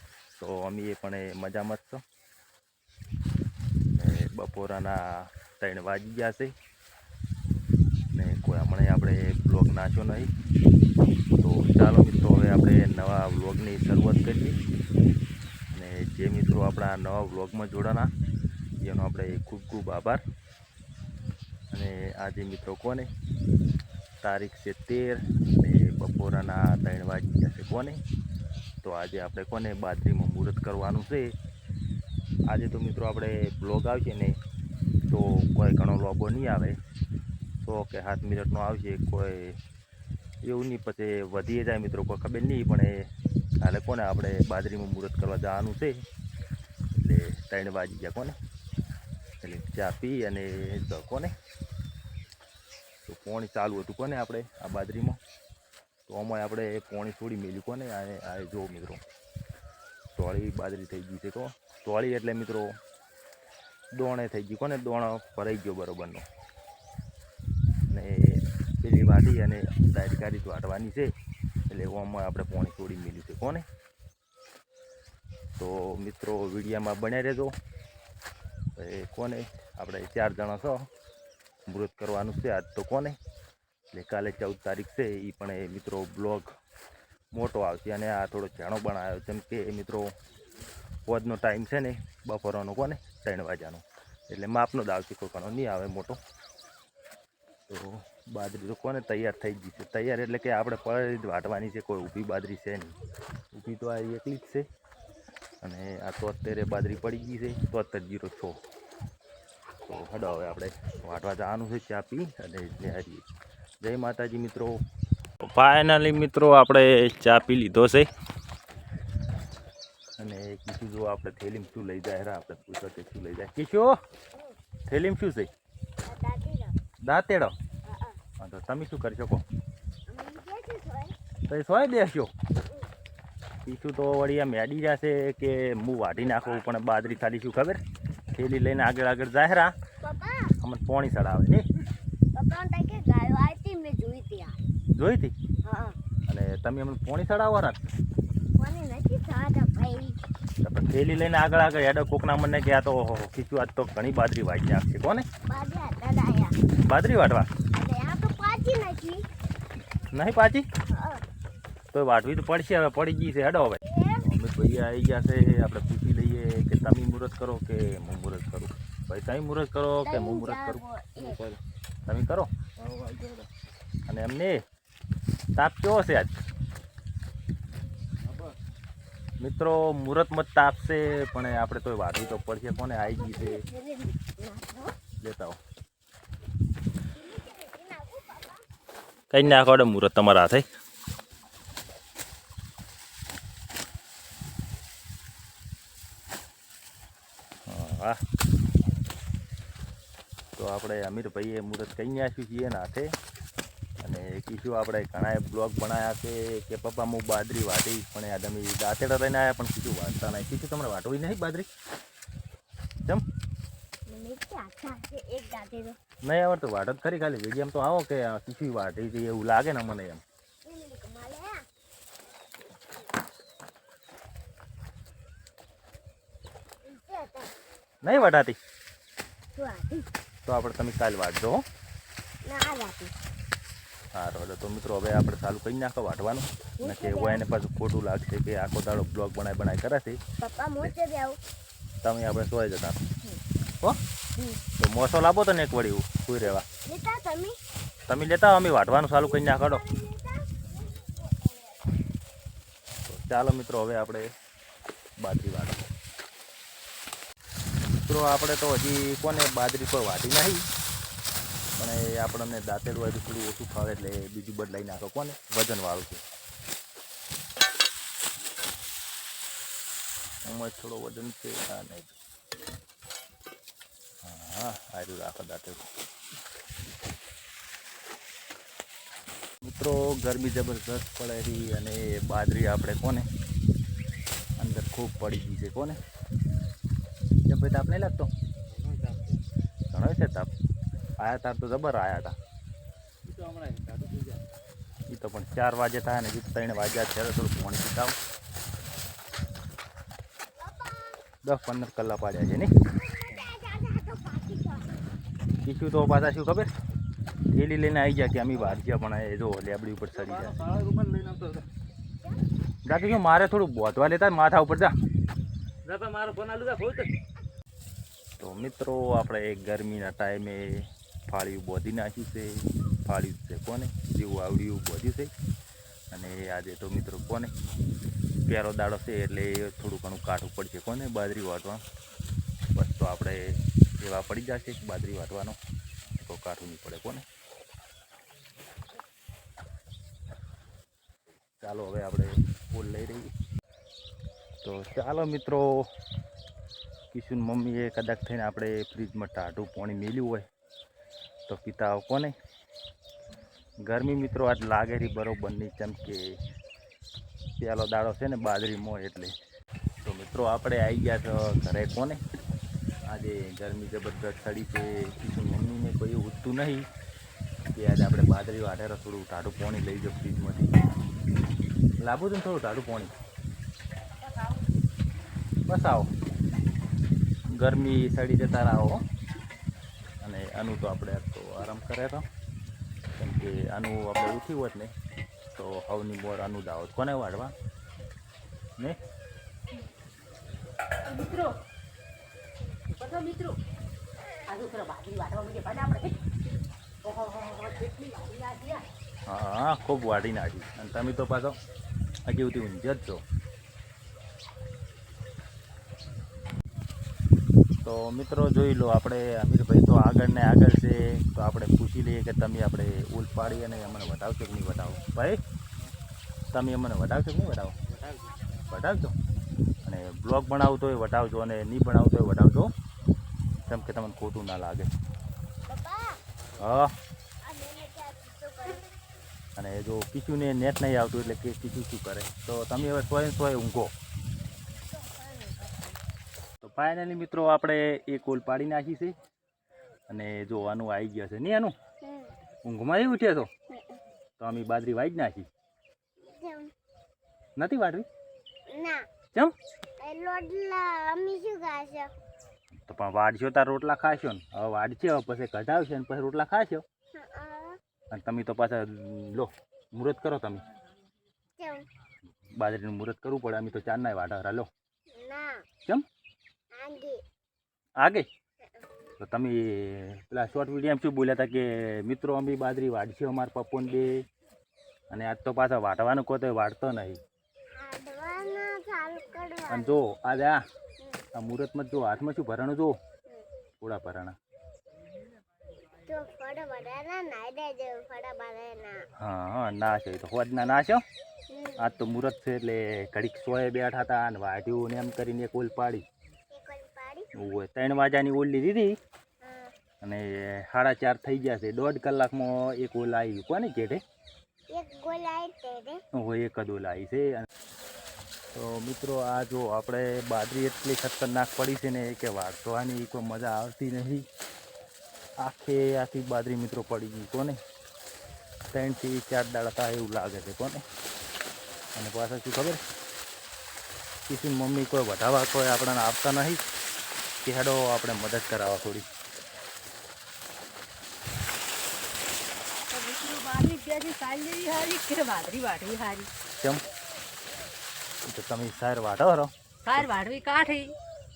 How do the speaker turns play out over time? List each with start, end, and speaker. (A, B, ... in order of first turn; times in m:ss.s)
0:00.4-0:02.0 A
0:04.0-0:06.5 A
0:08.1-0:10.3 A
0:11.4-0:14.6 A
0:15.7-0:18.1 A
0:18.8-0:20.2 A
0:21.7-0:23.1 A
0:24.2-0:28.0 A
0:28.8-0:31.3 A
0:32.5-0:34.4 A
0:35.1-0:36.8 A
0:37.6-0:39.6 A
0:40.4-0:43.0 A
0:43.6-0:46.0 A
0:46.9-0:48.4 A
0:49.4-0:51.3 A
0:53.0-0:55.2 A
0:56.1-0:59.0 A
1:00.2-1:02.7 A
1:04.0-1:06.2 A
1:07.9-1:11.1 A
1:11.7-1:13.7 A
1:15.6-1:17.5 A
1:18.8-1:20.8 A
1:21.7-1:23.2 A
1:23.9-1:26.5 A
1:27.3-1:30.1 A
1:31.0-1:36.2 A
1:37.7-1:43.0 A
1:43.5-1:44.6 A
1:45.6-1:48.6 A
1:49.8-1:53.3 A
1:53.8-1:54.8 A
1:55.4-1:58.1 A
2:00.2-2:04.0 A
2:04.9-2:05.5 A
2:06.0-2:06.7 B
2:07.1-2:07.6 A
2:07.8-2:08.2 B
2:08.4-2:09.4 A
2:10.1-2:11.1 B
2:11.5-2:12.3 A
2:12.6-2:12.9 B
2:13.7-2:17.8 A
2:18.4-2:19.7 A
2:20.0-2:20.6 B
2:20.6-2:21.7 A
2:22.4-2:24.6 B
2:24.9-2:25.3 A
2:25.6-2:26.0 B
2:26.3-2:27.9 A
2:28.6-2:30.2 B
2:30.6-2:35.3 A
2:35.5-2:36.6 B
2:36.8-2:37.5 A
2:37.7-2:39.2 B
2:40.1-2:40.7 A
2:40.9-2:41.2 B
2:41.9-2:50.8 A
2:43.8-2:44.2 B
2:50.0-2:51.5 B
2:52.1-2:52.5 A
2:52.9-2:53.4 C
2:54.1-2:54.6 A
2:55.6-2:56.4 A
2:59.4-3:03.6 A
3:03.0-3:04.9 B
3:05.2-3:05.6 A
3:07.2-3:08.6 B
3:09.3-3:10.7 A
3:17.7-3:18.2 A
3:20.6-3:23.1 A
3:24.0-3:31.7 A
3:34.1-3:36.0 B
3:36.3-3:40.2 A
3:40.6-3:41.6 B
3:46.8-3:47.5 B
3:48.0-3:48.6 A
3:49.6-3:50.1 B
3:50.5-3:51.6 A
3:52.4-3:53.1 B
3:54.2-4:00.2 A
3:56.8-3:57.5 B
4:00.4-4:01.4 B
4:02.0-4:03.0 A
4:04.8-4:06.6 A
4:06.9-4:07.6 B
4:08.1-4:09.8 A
4:09.3-4:11.6 B
4:13.1-4:14.3 A
4:15.2-4:15.8 A
4:18.1-4:20.6 A
4:21.8-4:26.2 A
4:30.5-4:32.2 A
4:34.2-4:35.9 A
4:39.6-4:43.3 A
4:44.6-4:46.0 A
4:47.5-4:48.3 A
4:48.7-4:49.4 C
4:49.9-4:50.5 A
4:51.2-4:52.4 A
4:53.3-4:54.4 C
4:55.1-4:58.2 A
5:00.6-5:01.2 B
5:01.4-5:02.7 A
5:02.9-5:04.9 B
5:05.6-5:06.7 A
5:07.5-5:10.8 A
5:10.2-5:11.6 C
5:12.9-5:14.9 A
5:15.9-5:17.1 C
5:18.4-5:25.3 A
5:26.1-5:27.5 A
5:28.5-5:31.8 A
5:32.7-5:35.6 A
5:36.2-5:37.2 A
5:41.6-5:43.3 A
5:44.6-5:45.9 A
5:47.1-5:50.5 A
5:51.5-5:52.3 A
5:53.8-5:56.4 A
5:57.6-5:59.3 A
6:00.0-6:02.2 A
6:03.1-6:06.9 A
6:07.8-6:10.8 A
6:12.0-6:13.1 A
6:14.2-6:14.6 D
6:15.7-6:16.1 A
6:17.5-6:19.0 A
6:20.2-6:22.2 A
6:23.2-6:24.9 A
6:25.5-6:27.5 A
6:31.1-6:31.6 D
6:32.9-6:33.6 D
6:34.5-6:36.2 D
6:37.0-6:38.9 D
6:39.3-6:41.6 A
6:42.2-6:43.2 A
6:47.8-6:55.4 A
6:56.5-6:57.8 A
6:58.7-6:59.2 A
6:59.8-7:02.7 A
7:03.7-7:04.9 A
7:05.7-7:06.2 B
7:06.6-7:06.9 A
7:07.4-7:08.9 B
7:09.6-7:13.9 A
7:14.9-7:15.9 B
7:16.6-7:19.2 A
7:20.1-7:21.7 A
7:22.0-7:22.3 B
7:22.6-7:23.5 A
7:23.7-7:24.0 B
7:24.4-7:25.5 A
7:26.2-7:26.7 B
7:27.6-7:28.1 A
7:28.7-7:29.0 B
7:30.0-7:32.1 B
7:32.8-7:36.8 A
7:37.1-7:37.8 B
7:38.1-7:40.6 A
7:41.6-7:41.9 B
7:42.6-7:44.7 A
7:45.1-7:45.6 B
7:46.7-7:47.2 B
7:48.0-7:48.3 A
7:48.6-7:48.9 B
7:49.2-7:54.2 A
7:55.1-7:57.2 A
7:57.8-8:00.0 B
7:59.7-8:00.6 A
8:01.4-8:03.0 A
8:03.8-8:04.4 A
8:06.1-8:09.0 B
8:09.2-8:11.0 A
8:11.5-8:11.8 B
8:11.8-8:16.0 A
8:16.5-8:17.3 B
8:17.4-8:18.9 A
8:19.4-8:19.7 B
8:20.0-8:24.0 A
8:24.7-8:26.0 B
8:26.2-8:27.5 A
8:28.5-8:34.2 A
8:35.4-8:37.6 A
8:38.7-8:40.8 A
8:42.0-8:42.8 A
8:44.3-8:46.6 A
8:47.4-8:49.1 A
8:52.9-8:56.3 D
8:56.6-8:56.8 A
8:58.3-9:00.1 A
8:59.8-9:01.0 D